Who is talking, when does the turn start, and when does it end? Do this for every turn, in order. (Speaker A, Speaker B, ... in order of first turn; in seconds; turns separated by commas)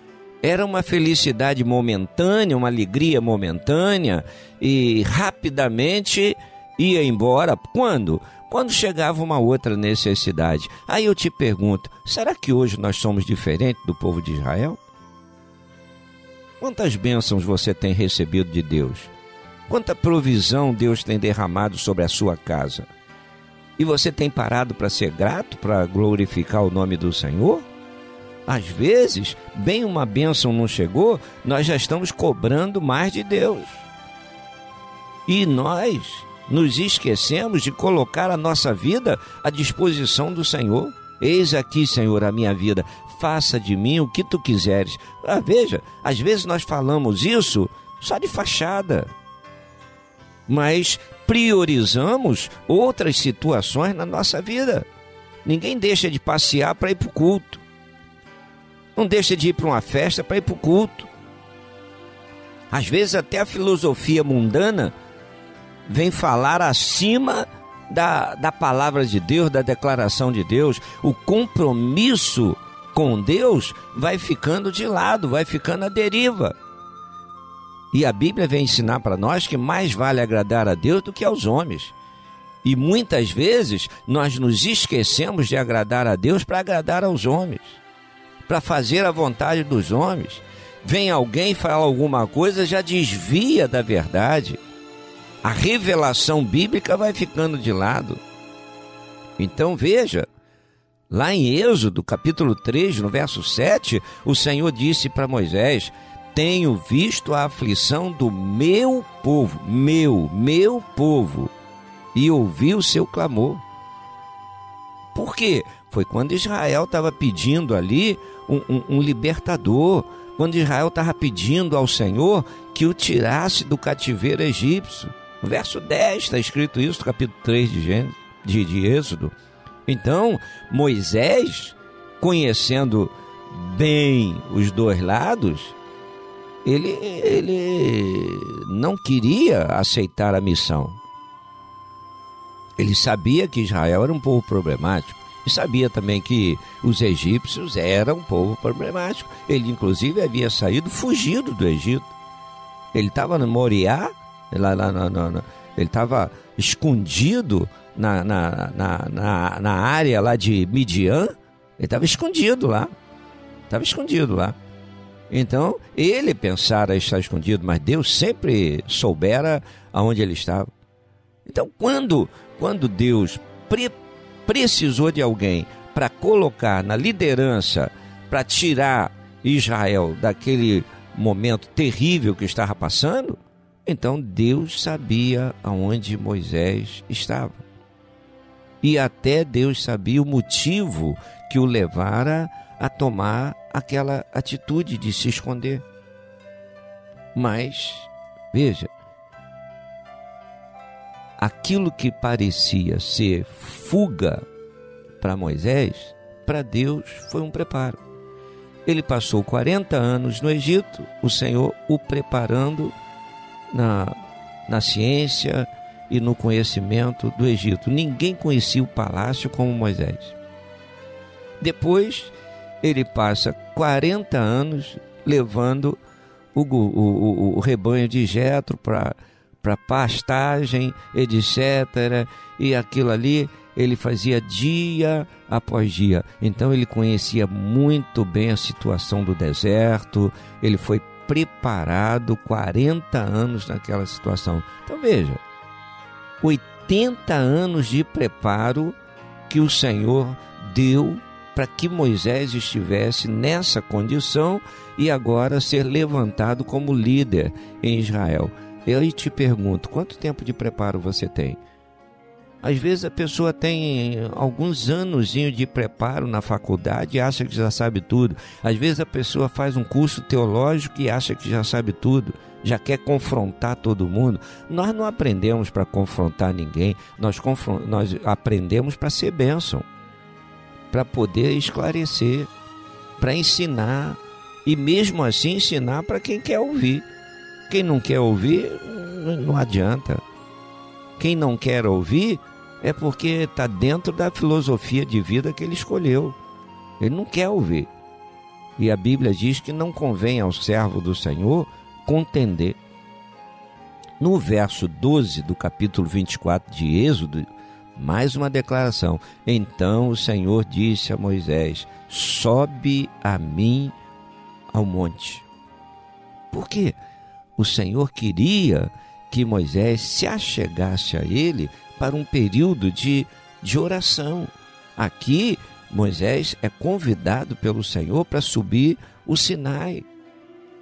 Speaker A: 0.4-14.8, Speaker A: 16.6-19.1, Speaker A: 19.7-22.9, Speaker A: 23.8-27.6, Speaker A: 28.5-33.9, Speaker A: 35.3-49.1, Speaker A: 50.5-54.9, Speaker A: 55.5-57.6, Speaker A: 59.0-61.1, Speaker A: 62.7-64.9, Speaker A: 65.9-76.5, Speaker A: 77.9-82.0, Speaker A: 82.6-87.8, Speaker A: 88.5-94.6, Speaker A: 95.4-98.2, Speaker A: 99.4-100.3, Speaker A: 101.1-111.5, Speaker A: 112.2-113.6, Speaker A: 115.1-129.3, Speaker A: 129.9-135.8, Speaker A: 136.7-141.0, Speaker A: 142.8-152.1, Speaker A: 152.9-162.9, Speaker A: 163.7-164.6, Speaker A: 165.3-170.7, Speaker A: 171.5-187.6, Speaker A: 188.8-195.8, Speaker A: 197.3-198.9, Speaker A: 201.4-204.4, Speaker A: 205.2-208.0, Speaker A: 208.9-212.9, Speaker A: 213.7-214.2, Speaker A: 214.7-220.3, Speaker A: 221.6-226.0, Speaker A: 226.6-245.4, Speaker A: 246.4-249.0, Speaker A: 249.5-261.6, Speaker A: 262.6-279.9, Speaker A: 280.9-282.5, Speaker A: 283.2-287.1, Speaker A: 287.7-290.2, Speaker A: 291.2-296.4, Speaker A: 297.0-297.9, Speaker A: 298.8-302.8, Speaker A: 304.2-313.9, Speaker A: 314.7-315.4, Speaker A: 316.5-317.0, Speaker A: 317.6-330.1